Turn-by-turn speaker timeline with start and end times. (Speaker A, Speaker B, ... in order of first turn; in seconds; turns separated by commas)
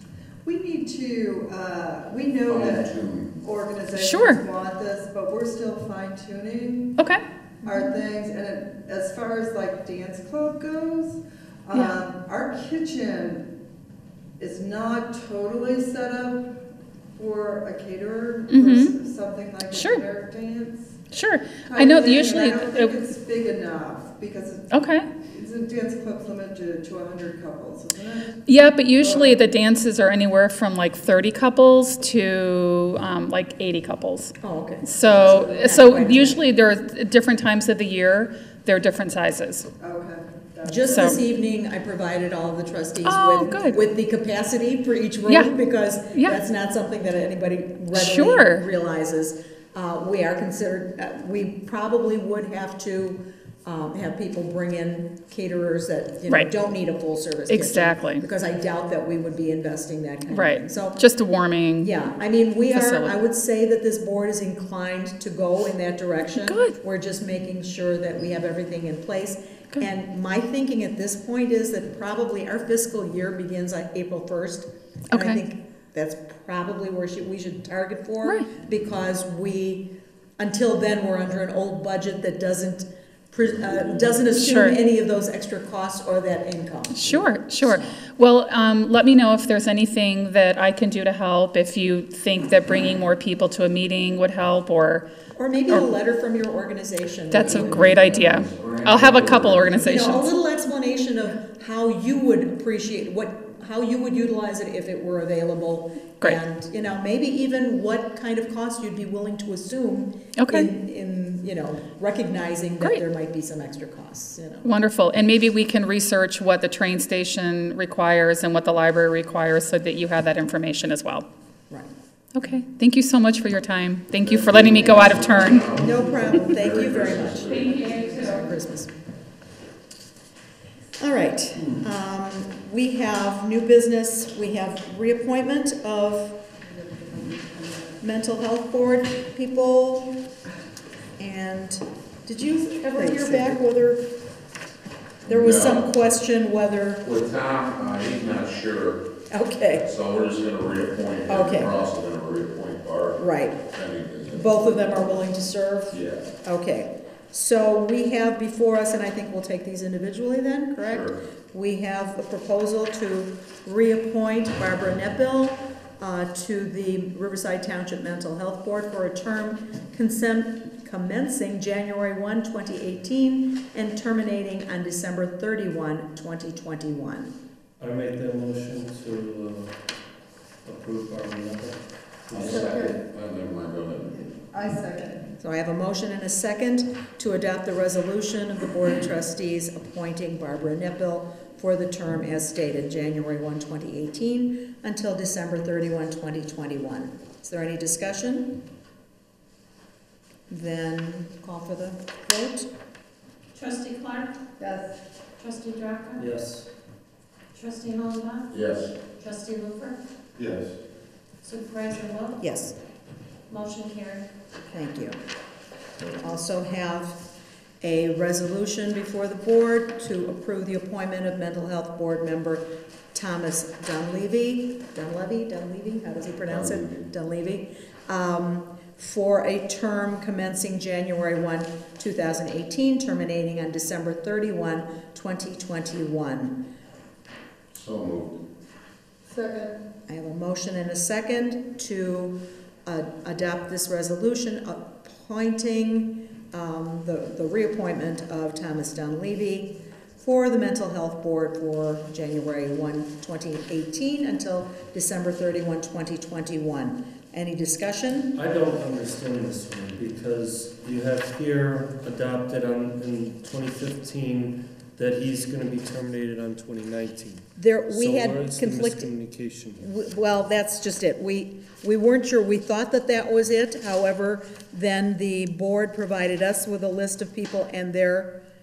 Speaker A: 0.5-7.0, Speaker B: 2.5-3.4, Speaker C: 4.0-4.4, Speaker A: 7.6-13.5, Speaker A: 14.4-16.5, Speaker A: 17.2-21.0, Speaker C: 18.5-18.9, Speaker C: 19.7-20.0, Speaker C: 21.1-23.0, Speaker A: 21.6-24.7, Speaker C: 24.7-25.1, Speaker A: 25.2-28.4, Speaker C: 28.5-39.7, Speaker A: 29.0-29.4, Speaker D: 34.4-36.4, Speaker A: 39.8-41.2, Speaker D: 40.6-61.0, Speaker C: 40.9-41.2, Speaker C: 43.0-43.8, Speaker C: 47.9-48.6, Speaker C: 57.5-58.2, Speaker C: 60.3-61.9, Speaker D: 61.8-88.0, Speaker C: 62.7-63.1, Speaker C: 66.4-66.8, Speaker C: 75.1-75.4, Speaker B: 83.4-84.1, Speaker C: 84.3-84.8, Speaker C: 86.9-95.1, Speaker D: 95.4-98.0, Speaker C: 97.3-100.3, Speaker B: 97.5-99.9, Speaker D: 99.8-114.7, Speaker C: 110.4-110.7, Speaker C: 114.7-121.3, Speaker C: 122.3-125.7, Speaker B: 124.2-127.9, Speaker D: 125.7-128.9, Speaker C: 127.5-128.5, Speaker D: 131.0-136.4, Speaker A: 136.8-137.8, Speaker D: 138.0-140.1, Speaker D: 141.2-144.1, Speaker A: 142.9-143.5, Speaker B: 145.3-145.8, Speaker D: 145.3-147.0, Speaker B: 147.0-149.0, Speaker D: 149.3-149.8, Speaker B: 149.8-154.6, Speaker D: 151.3-151.7, Speaker D: 153.2-153.6, Speaker D: 154.3-177.3, Speaker B: 155.9-156.2, Speaker B: 160.8-161.2, Speaker E: 177.8-179.9, Speaker E: 180.6-182.6, Speaker B: 182.3-184.1, Speaker A: 182.4-183.0, Speaker A: 184.1-185.3, Speaker D: 185.4-198.6, Speaker D: 200.5-202.7, Speaker F: 203.5-204.3, Speaker A: 204.6-204.9, Speaker F: 205.4-206.2, Speaker E: 206.2-206.7, Speaker F: 207.5-208.5, Speaker B: 208.5-208.9, Speaker F: 209.1-210.0, Speaker B: 210.4-210.7, Speaker F: 211.4-212.4, Speaker D: 212.4-212.8, Speaker F: 213.5-214.3, Speaker D: 214.6-215.2, Speaker D: 216.1-217.2, Speaker D: 217.8-236.6, Speaker B: 226.5-226.9, Speaker B: 237.7-238.4, Speaker A: 239.3-239.8, Speaker D: 240.1-258.4, Speaker E: 258.3-269.9, Speaker D: 267.6-269.1, Speaker D: 269.8-278.4